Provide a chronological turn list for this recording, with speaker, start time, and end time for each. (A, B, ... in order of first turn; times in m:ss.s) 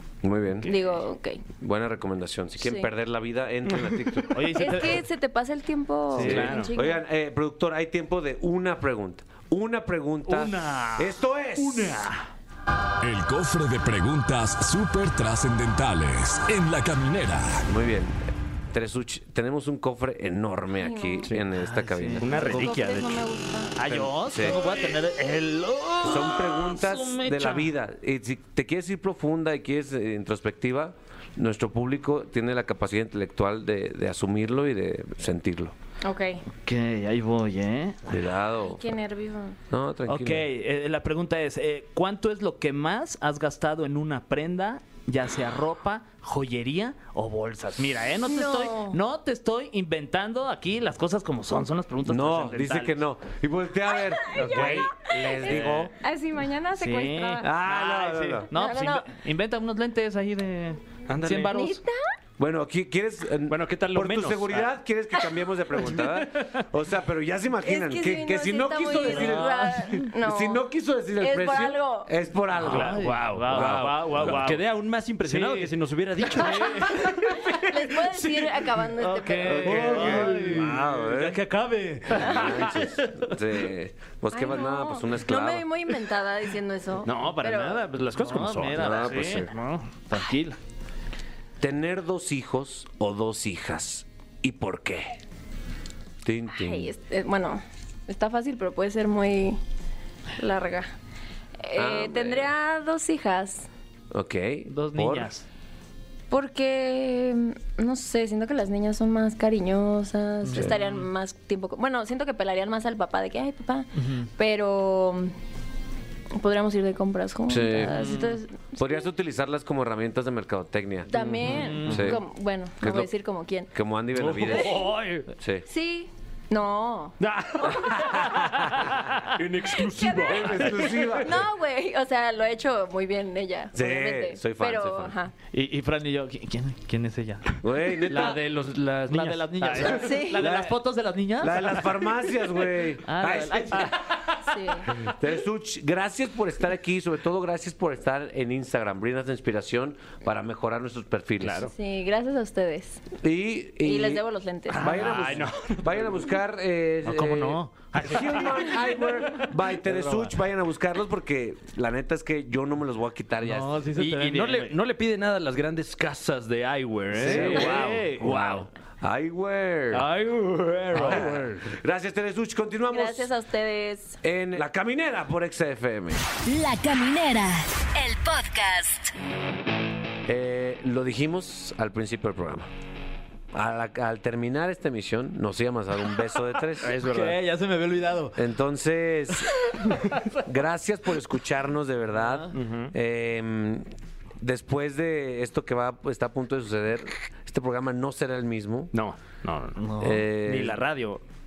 0:00.2-0:00.7 A
0:00.6-0:01.4 B
0:01.6-0:04.8 A
0:02.6-0:02.9 B
0:04.3-0:05.0 C
0:04.5-0:07.0 B
0:06.1-0:06.6 C
0:06.1-0:06.7 D
0:06.1-0:12.1 A
0:10.2-0:12.2 C
0:13.0-0:17.7 E
0:17.6-0:22.6 A
0:20.8-0:21.3 B
0:21.5-0:22.8 C
0:22.2-0:23.3 D
0:22.4-0:23.8 B
0:23.8-0:27.7 C
0:23.9-0:24.6 A
0:24.4-0:24.9 D
0:26.0-0:35.7 A
0:36.0-0:36.4 B
0:36.5-0:38.2 C
0:38.1-0:38.8 A
0:38.6-0:39.6 B
0:39.7-0:40.5 A
0:40.1-0:53.0 C
0:48.2-0:49.0 B
0:52.0-0:55.9 A
0:53.9-0:57.4 B
0:54.3-0:55.9 D
0:54.5-0:54.8 C
0:55.5-0:55.8 C
0:56.7-1:01.8 C
0:57.4-0:58.5 A
0:58.5-0:59.1 B
1:01.1-1:01.6 D
1:01.4-1:02.0 B
1:02.4-1:14.4 A
1:03.5-1:04.8 D
1:05.9-1:06.6 D
1:07.6-1:12.1 B
1:09.1-1:09.4 C
1:09.1-1:10.0 D
1:12.5-1:14.6 C
1:12.6-1:18.6 D
1:15.2-1:17.6 C
1:16.4-1:19.8 B
1:19.0-1:22.8 C
1:19.4-1:20.8 D
1:19.5-1:21.4 A
1:22.1-1:22.8 D
1:22.2-1:25.7 A
1:24.3-1:27.9 B
1:27.0-1:29.5 D
1:28.2-1:30.6 C
1:28.7-1:29.5 A
1:31.6-1:35.2 A
1:36.2-1:36.9 A
1:36.5-1:39.6 B
1:40.4-1:40.9 B
1:41.6-1:43.7 B
1:41.7-1:42.5 A
1:44.1-1:45.3 A
1:44.7-1:45.4 C
1:46.3-1:55.3 B
1:50.4-1:51.0 C
1:50.5-1:50.8 A
1:54.0-1:54.3 C
1:56.3-1:59.1 B
1:57.5-1:58.2 A
1:58.0-1:58.3 D
1:58.8-2:01.1 A
2:01.1-2:03.7 B
2:01.1-2:02.1 D
2:01.4-2:02.1 C
2:01.8-2:02.2 A
2:02.8-2:03.1 A
2:03.7-2:04.8 A
2:04.1-2:05.3 D
2:04.5-2:04.9 B
2:05.4-2:05.6 A
2:05.6-2:08.3 B
2:07.2-2:11.4 D
2:08.0-2:08.9 A
2:09.6-2:10.6 B
2:10.2-2:11.4 A
2:11.2-2:15.3 B
2:13.7-2:15.2 A
2:15.5-2:17.6 C
2:17.6-2:18.4 A
2:18.1-2:20.3 D
2:19.1-2:22.0 C
2:20.0-2:20.4 B
2:20.3-2:20.8 A
2:21.4-2:24.3 A
2:23.0-2:23.9 C
2:24.4-2:24.9 B
2:25.0-2:31.7 A
2:31.4-2:31.7 D
2:31.6-2:33.0 B
2:33.2-2:43.8 A
2:33.8-2:35.0 B
2:34.7-2:36.3 D
2:34.7-2:35.5 C
2:37.0-2:40.3 C
2:43.4-2:44.8 C
2:43.9-2:48.7 D
2:47.1-2:50.1 A
2:47.2-2:48.6 C
2:49.9-2:51.7 D
2:50.9-2:53.3 A
2:52.9-2:54.2 B
2:54.2-2:56.2 A
2:56.4-2:59.1 F
3:00.2-3:02.7 A
3:03.5-3:06.9 A
3:06.8-3:07.4 D
3:06.9-3:08.4 C
3:08.4-3:09.5 A
3:10.4-3:13.9 A
3:12.2-3:12.5 C
3:12.5-3:12.9 D
3:14.4-3:18.9 A
3:18.9-3:19.8 D
3:19.8-3:20.2 C
3:20.0-3:20.8 A
3:20.4-3:21.2 D